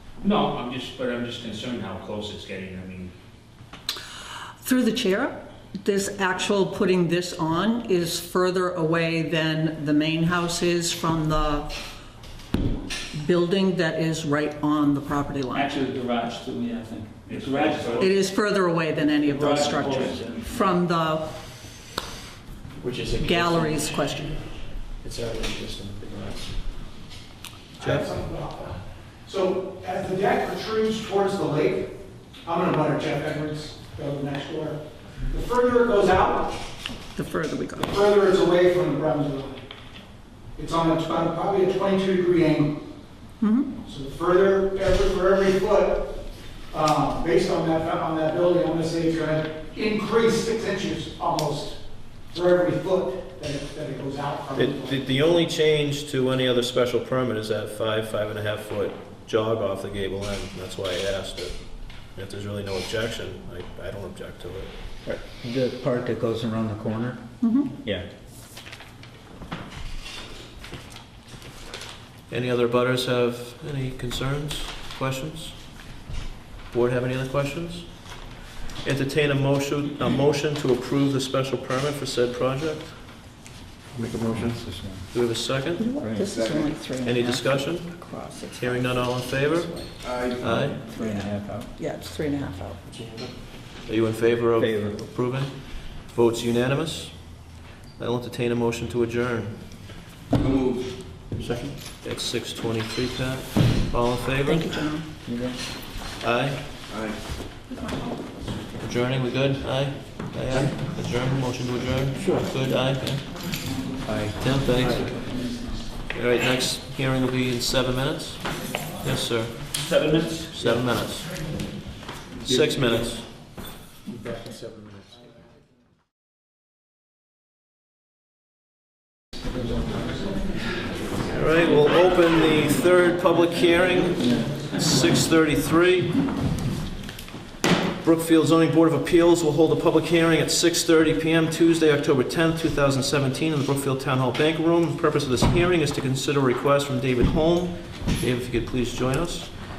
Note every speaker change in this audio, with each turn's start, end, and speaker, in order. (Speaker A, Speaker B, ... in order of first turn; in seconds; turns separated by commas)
Speaker A: 0.2-3.1, Speaker B: 4.6-11.7, Speaker B: 13.2-15.8, Speaker C: 15.5-18.0, Speaker A: 17.3-18.1, Speaker B: 18.0-21.2, Speaker C: 19.4-20.4, Speaker D: 22.8-24.3, Speaker B: 23.2-24.4, Speaker D: 25.0-26.6, Speaker E: 27.8-34.8, Speaker F: 27.8-28.1, Speaker E: 35.3-36.6, Speaker B: 37.1-37.9, Speaker E: 37.8-39.6, Speaker E: 40.5-42.8, Speaker B: 43.4-43.7, Speaker E: 43.8-46.1, Speaker E: 46.7-51.7, Speaker E: 52.3-55.0, Speaker F: 54.5-64.7, Speaker G: 65.1-67.2, Speaker B: 67.4-67.7, Speaker F: 72.3-75.5, Speaker F: 76.7-83.0, Speaker D: 83.9-84.7, Speaker G: 84.3-85.1, Speaker F: 85.1-85.9, Speaker B: 85.8-89.9, Speaker G: 86.0-86.3, Speaker D: 86.3-86.7, Speaker F: 87.0-87.9, Speaker F: 88.5-90.8, Speaker G: 90.6-91.7, Speaker B: 90.9-92.8, Speaker D: 92.9-93.3, Speaker F: 93.8-99.7, Speaker G: 94.5-95.1, Speaker D: 101.4-101.7, Speaker F: 102.0-104.7, Speaker B: 104.4-105.1, Speaker G: 105.2-105.5, Speaker F: 106.2-106.7, Speaker B: 107.7-108.2, Speaker F: 108.8-113.5, Speaker D: 112.1-112.5, Speaker G: 114.0-114.5, Speaker F: 114.4-115.2, Speaker D: 114.7-115.2, Speaker C: 115.3-115.7, Speaker F: 116.1-119.7, Speaker C: 119.8-120.7, Speaker F: 120.5-121.3, Speaker F: 122.4-123.3, Speaker D: 124.1-125.2, Speaker F: 131.3-136.2, Speaker F: 138.0-149.5